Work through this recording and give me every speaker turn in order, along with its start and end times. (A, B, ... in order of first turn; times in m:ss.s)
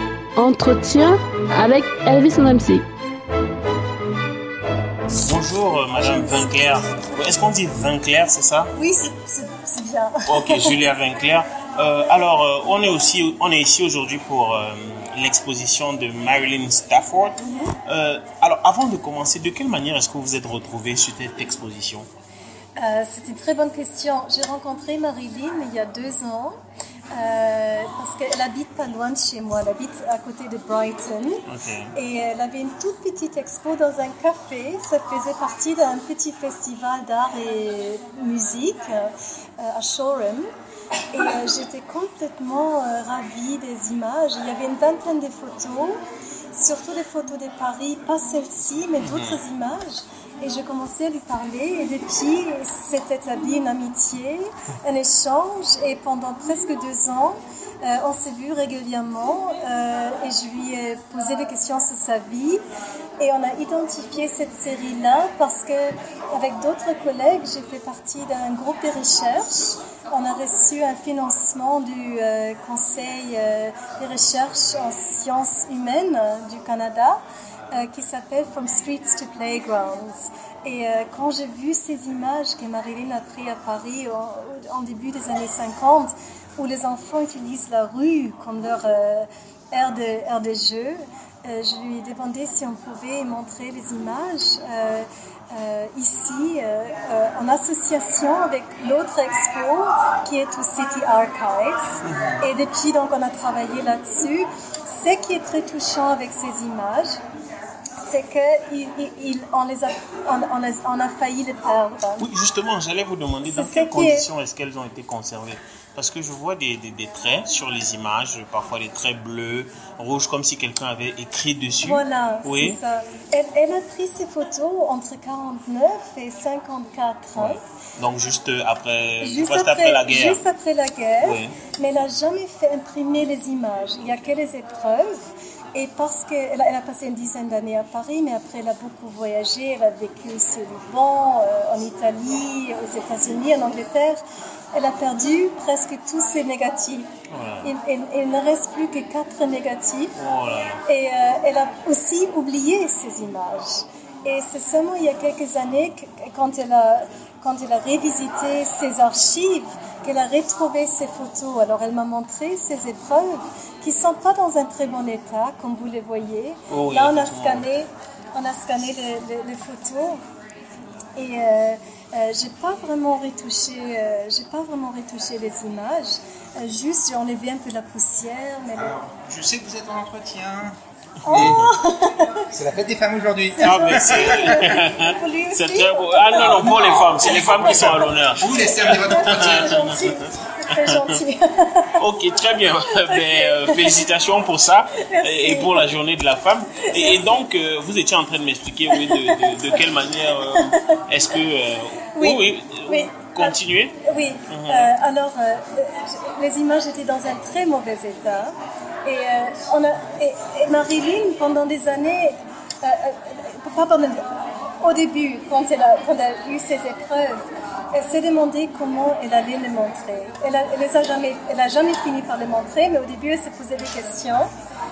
0:00.4-0:02.9 A
0:05.2-0:08.7 B
0:06.0-0:06.7 C
0:08.8-0:10.8 C
0:10.3-0:22.1 B
0:17.4-0:17.7 C
0:22.8-0:26.6 C
0:27.1-0:40.5 C
0:31.5-0:31.9 B
0:41.1-0:46.0 C
0:46.5-1:02.6 C
0:49.0-0:49.4 B
1:03.2-1:17.2 C
1:17.7-1:47.2 C
1:42.0-1:42.4 B
1:48.0-1:52.3 C
1:52.2-2:02.8 B
1:53.4-1:54.3 C
2:01.8-2:07.6 C
2:07.4-2:10.4 B
2:09.2-2:24.2 C
2:11.2-2:11.6 B
2:24.7-2:27.1 C
2:27.3-2:27.7 B
2:27.6-2:30.2 C
2:30.2-2:30.8 B
2:30.8-2:50.2 C
2:46.7-2:47.7 B
2:51.2-2:59.0 C
2:58.8-3:00.8 D
3:01.2-3:02.4 C
3:01.3-3:01.7 D
3:01.3-3:01.7 B
3:02.5-3:04.8 D
3:03.6-3:12.0 C
3:03.6-3:10.2 B
3:06.3-3:09.8 D
3:10.7-3:11.2 B
3:12.0-3:24.0 B
3:13.0-3:14.0 C
3:15.0-3:15.9 C
3:16.8-3:17.4 C
3:18.9-3:19.8 C
3:20.6-3:21.0 C
3:22.1-3:34.2 C
3:24.5-3:24.9 B
3:34.8-3:44.5 C